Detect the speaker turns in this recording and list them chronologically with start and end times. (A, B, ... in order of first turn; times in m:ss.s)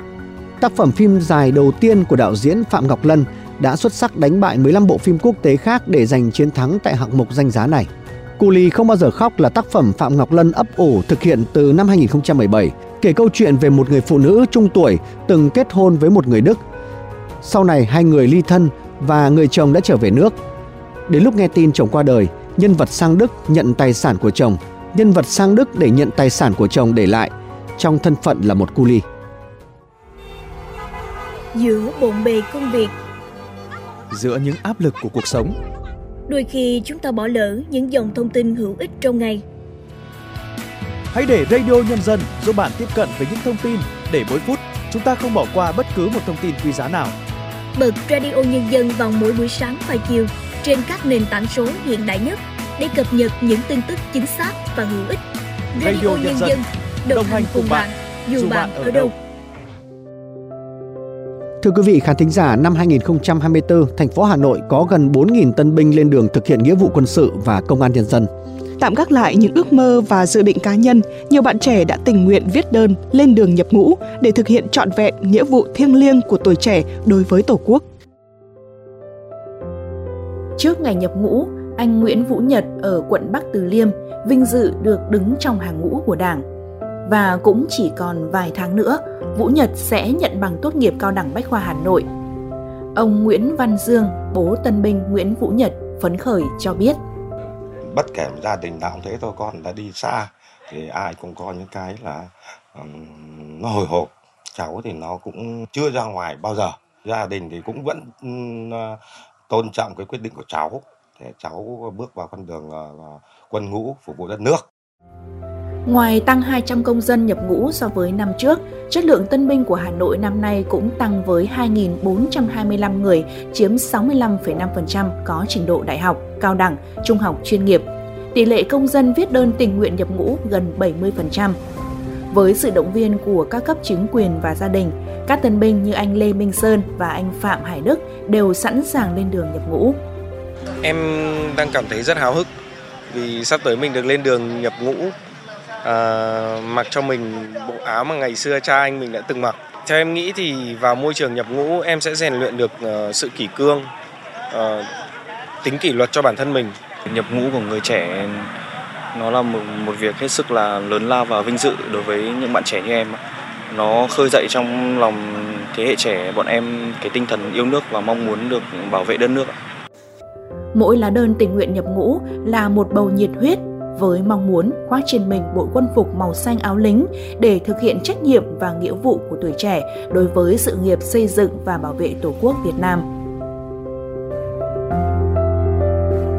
0:00.6-0:16.6 A
0:17.4-0:20.4 A
0:21.1-0:29.0 A
0:31.5-0:32.9 B
0:34.1-0:35.6 C
0:36.3-0:39.4 B
0:41.1-0:47.2 C
0:47.8-0:55.2 B
0:55.8-0:59.1 B
0:55.8-0:56.6 C
0:57.1-0:59.1 C
1:01.6-1:08.3 A
1:08.8-1:17.8 D
1:20.6-1:26.4 E
1:27.1-1:32.1 E
1:33.0-1:37.0 E
1:37.9-1:49.0 F
1:49.5-1:54.7 F
1:55.9-2:11.6 E
2:12.3-2:20.0 E
2:20.8-2:22.5 G
2:23.1-2:25.1 G
2:25.8-2:33.9 G
2:34.5-2:34.9 G
2:35.6-2:36.8 G
2:37.1-2:38.5 H
2:39.1-2:49.6 H
2:50.7-3:03.1 E